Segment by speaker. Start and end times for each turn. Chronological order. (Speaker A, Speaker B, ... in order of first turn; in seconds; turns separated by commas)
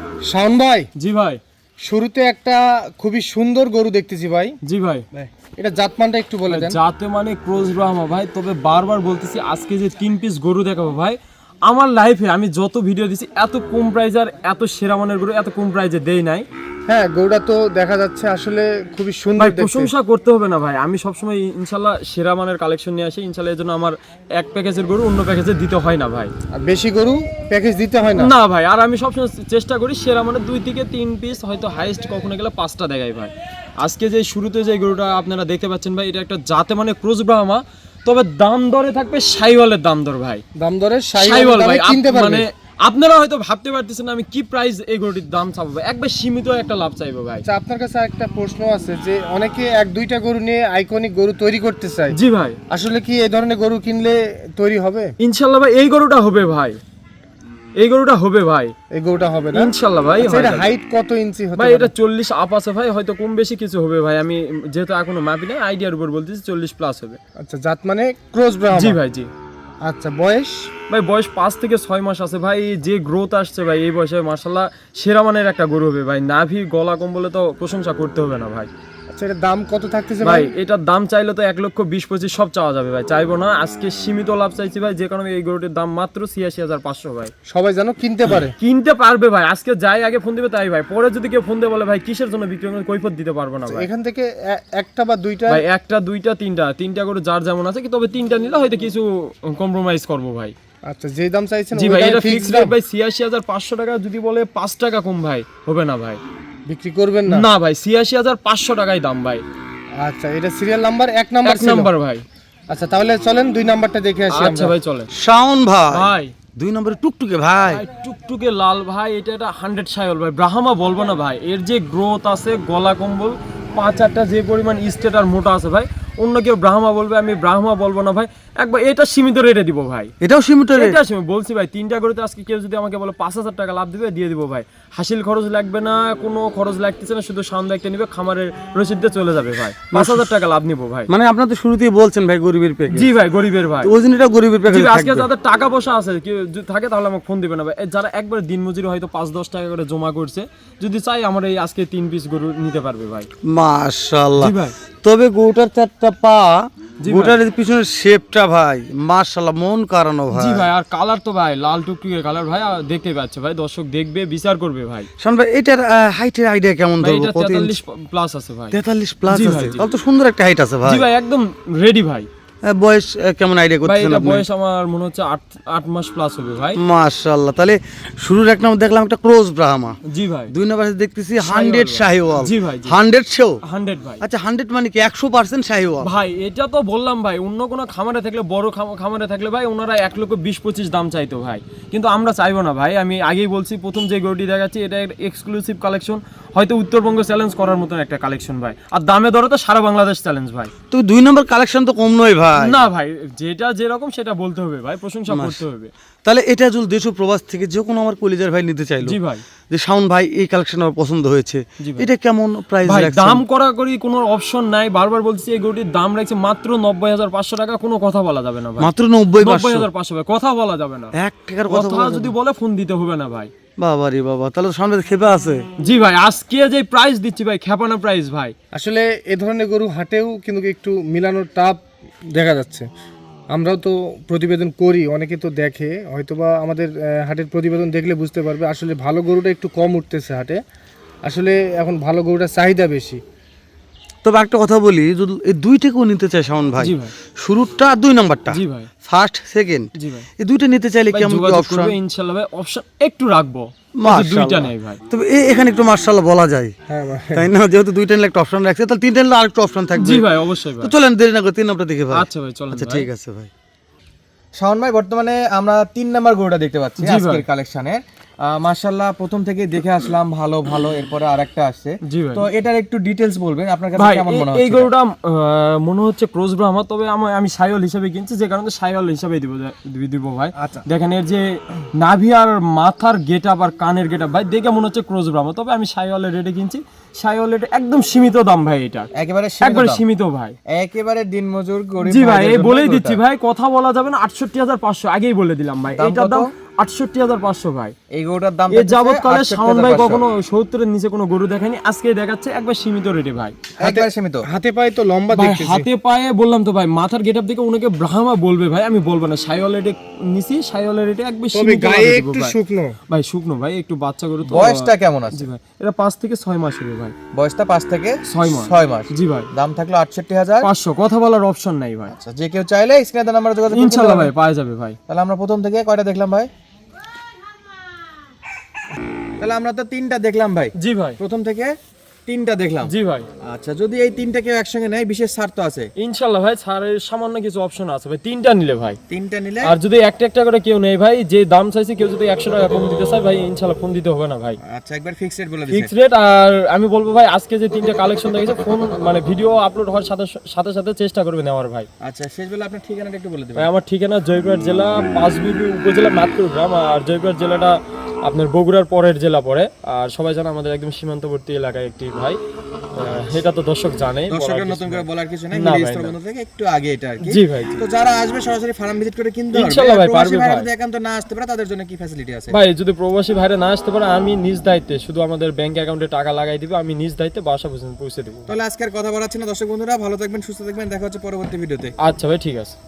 Speaker A: 0.3-0.9, Speaker B: 0.9-1.4, Speaker A: 1.8-4.6, Speaker B: 4.6-5.0, Speaker A: 5.6-6.8, Speaker B: 6.5-16.4, Speaker A: 16.9-19.9, Speaker B: 19.4-26.3, Speaker A: 26.5-28.3, Speaker B: 28.1-40.4, Speaker A: 40.5-42.4, Speaker B: 41.1-47.4, Speaker A: 47.4-52.1, Speaker B: 52.1-52.6, Speaker A: 52.7-55.1, Speaker B: 55.2-56.8, Speaker B: 57.8-58.7, Speaker A: 58.9-61.9, Speaker B: 59.5-60.7, Speaker B: 61.6-67.2, Speaker A: 67.4-69.0, Speaker B: 68.7-69.3, Speaker A: 69.8-70.7, Speaker B: 70.9-78.7, Speaker A: 79.1-80.5, Speaker B: 80.2-87.3, Speaker A: 87.5-88.5, Speaker B: 88.3-93.9, Speaker A: 93.7-95.6, Speaker B: 95.5-100.5, Speaker A: 100.9-102.7, Speaker B: 101.7-106.2, Speaker A: 106.7-107.5, Speaker B: 107.2-109.4, Speaker A: 110.0-111.9, Speaker B: 111.4-112.2, Speaker A: 112.7-114.7, Speaker B: 114.3-115.1, Speaker C: 115.1-117.8, Speaker B: 115.9-116.3, Speaker B: 117.7-130.1, Speaker C: 130.2-131.0, Speaker B: 130.7-141.1, Speaker C: 139.9-140.3, Speaker C: 141.1-143.1, Speaker B: 142.9-143.9, Speaker C: 143.8-145.3, Speaker B: 144.7-153.3, Speaker C: 153.5-160.7, Speaker B: 154.4-154.7, Speaker B: 157.0-157.4, Speaker B: 160.3-165.1, Speaker C: 165.2-167.8, Speaker B: 167.0-169.8, Speaker C: 168.7-171.1, Speaker B: 170.8-172.3, Speaker C: 172.7-174.4, Speaker B: 173.8-176.8, Speaker C: 176.8-179.9, Speaker B: 180.1-180.5, Speaker C: 180.5-183.6, Speaker B: 181.4-183.0, Speaker B: 183.6-184.2, Speaker C: 184.2-186.1, Speaker B: 186.0-200.7, Speaker C: 200.9-202.8, Speaker B: 202.5-205.9, Speaker C: 205.3-205.6, Speaker C: 206.2-209.2, Speaker B: 209.0-209.4, Speaker C: 209.7-213.4, Speaker B: 211.8-212.1, Speaker B: 212.8-221.1, Speaker C: 218.8-219.9, Speaker C: 221.1-222.3, Speaker B: 221.7-223.5, Speaker C: 223.8-225.6, Speaker B: 225.8-228.5, Speaker A: 228.7-231.8, Speaker A: 232.3-232.8, Speaker A: 233.5-240.6, Speaker A: 241.2-243.2, Speaker C: 244.2-251.9, Speaker B: 246.8-247.1, Speaker B: 248.5-248.9, Speaker B: 249.9-250.3, Speaker B: 251.1-255.0, Speaker C: 254.0-256.7, Speaker A: 256.9-257.5, Speaker C: 257.3-260.3, Speaker B: 259.9-260.9, Speaker C: 260.8-263.5, Speaker B: 262.1-263.1, Speaker D: 264.6-274.9, Speaker B: 267.0-267.4, Speaker B: 272.0-272.4, Speaker B: 273.9-289.1, Speaker D: 289.1-290.0, Speaker B: 289.6-290.5, Speaker D: 290.7-293.2, Speaker B: 292.0-297.9, Speaker D: 295.9-296.5, Speaker D: 298.1-300.2, Speaker B: 298.7-303.6, Speaker A: 303.8-305.9, Speaker D: 303.8-304.5, Speaker B: 305.3-312.5, Speaker A: 311.5-313.0, Speaker B: 313.1-317.1, Speaker D: 314.4-315.5, Speaker D: 317.3-320.7, Speaker B: 318.3-319.5, Speaker B: 320.6-322.1, Speaker D: 322.1-324.3, Speaker B: 323.7-325.0, Speaker D: 325.1-326.5, Speaker D: 329.4-331.7, Speaker B: 330.8-331.2, Speaker D: 332.2-335.9, Speaker B: 332.8-333.3, Speaker B: 336.0-339.0, Speaker D: 339.1-339.7, Speaker B: 339.6-344.6, Speaker D: 344.6-345.9, Speaker B: 345.7-351.9, Speaker D: 352.0-353.7, Speaker B: 353.5-362.4, Speaker B: 362.9-366.1, Speaker D: 364.3-372.6, Speaker B: 367.2-367.8, Speaker B: 369.5-370.7, Speaker B: 372.5-378.5, Speaker D: 378.5-381.9, Speaker B: 382.0-382.8